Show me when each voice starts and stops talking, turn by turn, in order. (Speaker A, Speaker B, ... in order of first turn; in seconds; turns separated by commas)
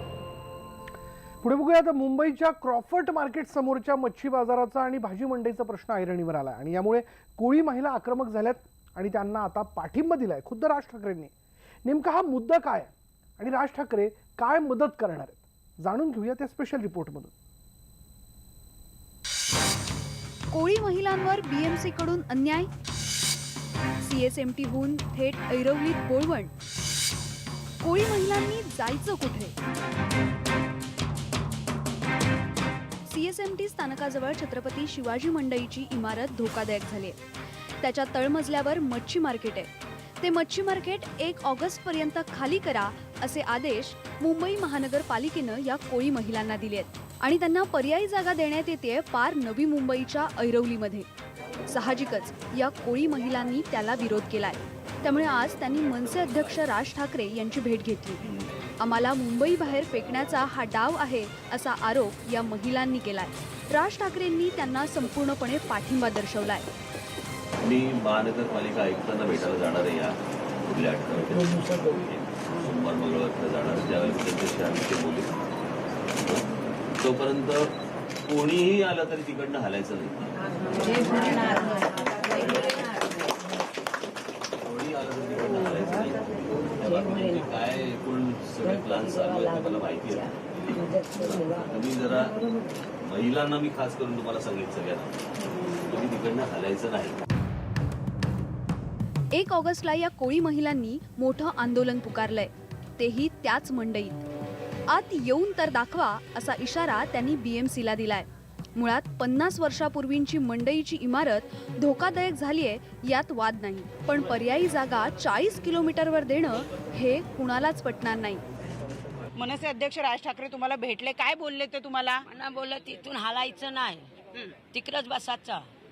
Speaker A: 1.4-11.3, Speaker A: 11.8-17.3, Speaker B: 20.5-22.7, Speaker B: 24.0-26.5, Speaker B: 27.8-29.5, Speaker B: 33.0-37.2, Speaker B: 37.8-39.7, Speaker B: 40.2-51.0, Speaker B: 51.7-58.2, Speaker B: 58.8-66.7, Speaker C: 67.6-75.3, Speaker C: 77.0-77.7, Speaker C: 78.3-80.2, Speaker D: 80.8-83.0, Speaker C: 84.6-86.2, Speaker C: 86.8-90.2, Speaker C: 91.2-92.3, Speaker C: 93.1-95.2, Speaker C: 95.9-97.2, Speaker B: 99.3-104.2, Speaker B: 104.9-118.4, Speaker E: 119.4-122.2, Speaker D: 122.3-125.6